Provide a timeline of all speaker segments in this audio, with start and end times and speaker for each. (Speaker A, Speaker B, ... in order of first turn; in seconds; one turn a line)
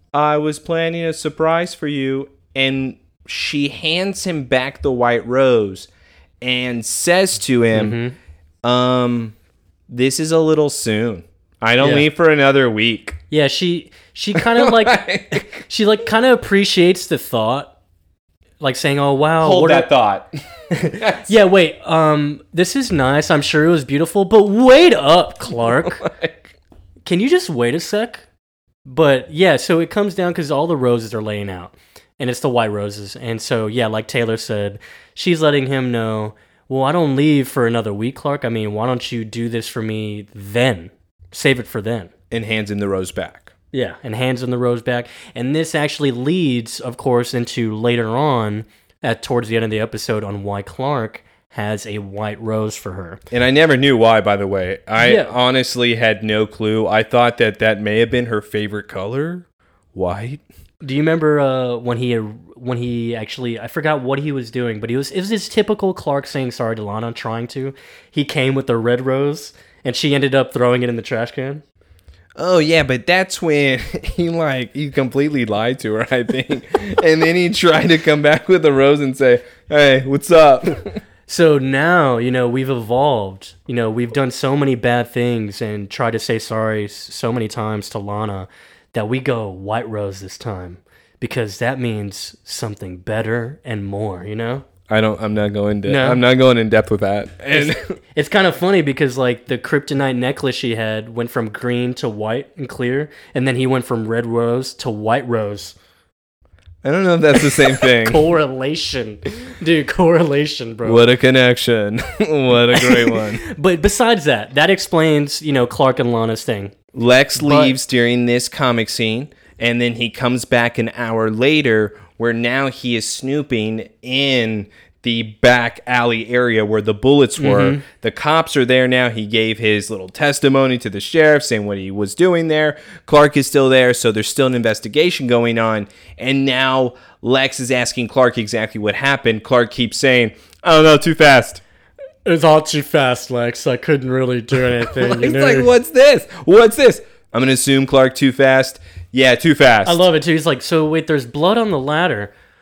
Speaker A: 0.1-5.9
Speaker A: 6.4-8.0
Speaker B: 7.7-8.2
Speaker A: 8.6-9.3
Speaker A: 9.9-13.2
Speaker B: 11.8-12.1
Speaker B: 13.3-17.7
Speaker A: 14.4-15.6
Speaker B: 18.6-19.9
Speaker A: 19.4-20.3
Speaker B: 20.7-26.1
Speaker A: 20.9-21.3
Speaker A: 25.8-26.5
Speaker B: 27.1-28.2
Speaker B: 28.9-42.1
Speaker A: 42.3-43.5
Speaker B: 43.7-53.2
Speaker A: 53.3-60.4
Speaker B: 55.0-55.3
Speaker B: 60.8-71.6
Speaker A: 72.4-81.0
Speaker B: 81.3-94.7
Speaker A: 94.9-98.0
Speaker B: 95.8-96.2
Speaker B: 97.5-105.8
Speaker A: 106.8-108.3
Speaker B: 107.7-111.1
Speaker A: 110.8-113.4
Speaker B: 112.8-116.7
Speaker A: 116.9-141.6
Speaker B: 117.4-117.8
Speaker B: 127.4-127.8
Speaker B: 142.2-145.7
Speaker A: 144.8-150.1
Speaker B: 149.8-152.3